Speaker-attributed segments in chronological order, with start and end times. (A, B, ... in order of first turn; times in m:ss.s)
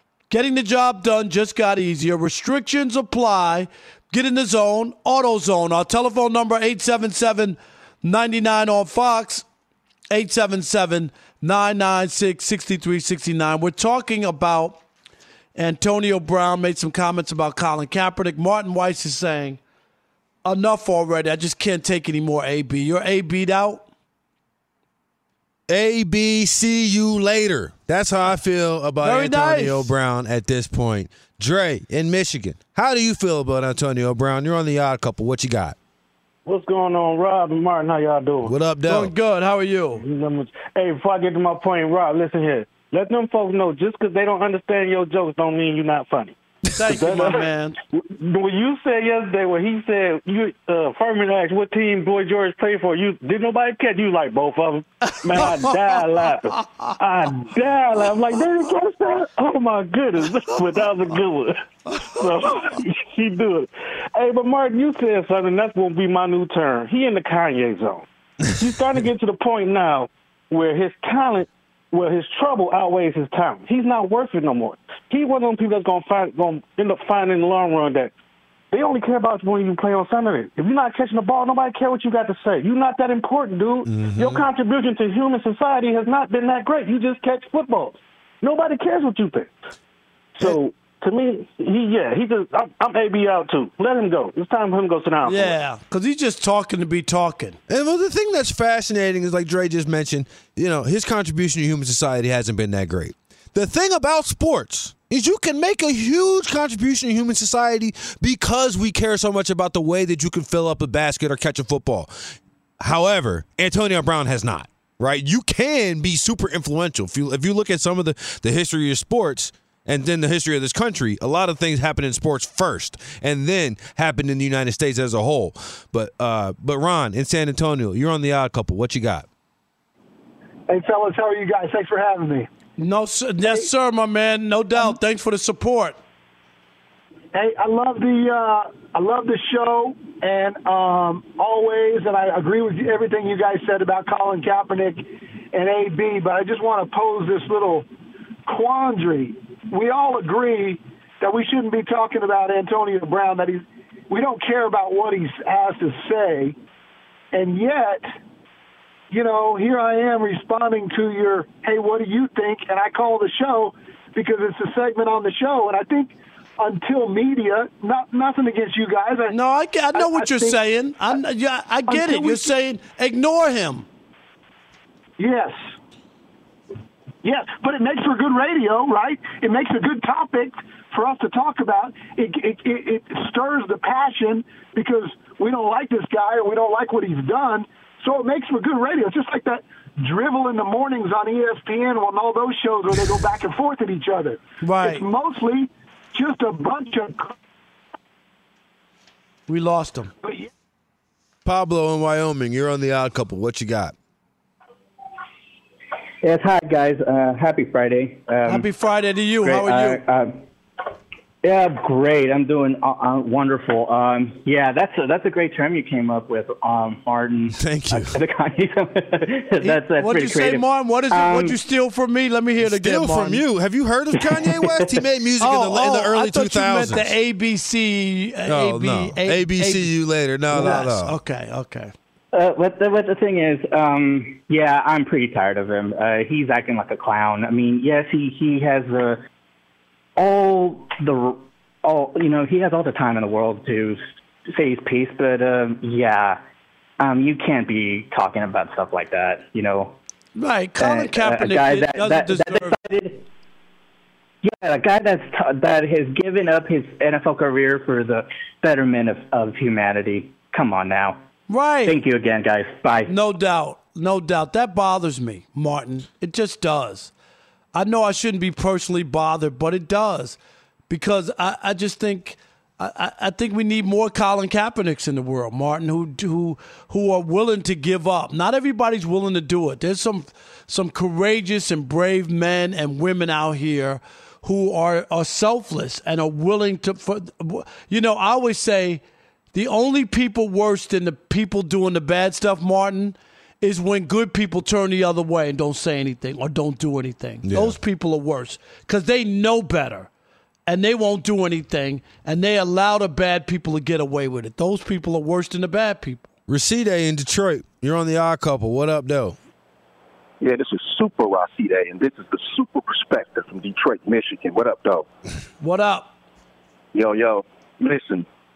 0:00.3-0:09.4 A
0:10.1-0:14.8 A
0:15.6-0:19.6 A
0:20.4-0:23.8 A
0:25.7-0:35.8 B
0:29.0-0:29.9 A
0:36.5-0:38.5 C
0:38.4-0:39.1 B
0:38.9-0:40.0 A
0:40.0-1:08.0 C
0:46.7-0:47.8 A
0:55.3-0:55.7 A
1:08.6-1:18.1 C
1:18.7-1:29.5 C
1:23.9-1:24.4 B
1:30.4-1:35.6 C
1:35.2-1:37.6 A
1:37.7-1:52.1 B
1:52.8-2:09.3 B
2:10.7-2:12.5 D
2:12.8-2:16.0 A
2:17.3-2:27.9 D
2:28.5-2:36.6 D
2:37.3-2:38.0 D
2:39.1-2:49.4 D
2:49.3-2:53.9 A
2:49.9-2:50.6 D
2:51.9-2:52.6 D
2:55.2-2:55.6 D
2:57.2-3:17.3 D
3:14.6-3:15.1 A
3:19.5-3:20.1 A
3:20.2-3:20.5 D
3:21.4-3:23.9 B
3:26.2-3:28.7 E
3:28.5-3:30.0 A
3:29.4-3:30.4 E
3:31.4-3:41.6 E
3:37.6-3:38.2 B
3:39.6-3:43.4 A
3:42.6-3:47.1 B
3:45.4-3:49.9 A
3:48.5-3:51.2 B
3:50.5-3:51.9 A
3:52.3-3:59.2 E
4:00.2-4:04.0 E
4:04.5-4:06.4 E
4:07.0-4:10.0 E
4:10.4-4:12.8 A
4:10.8-4:13.2 E
4:14.4-4:21.2 E
4:21.5-4:22.0 A
4:21.9-4:23.1 E
4:23.1-4:27.1 A
4:27.7-4:30.4 A
4:30.9-4:49.0 A
4:49.5-5:00.1 A
4:57.4-4:57.8 B
5:00.7-5:06.3 A
5:06.5-5:09.4 B
5:10.4-5:15.0 F
5:15.6-5:16.1 A
5:16.9-5:18.2 F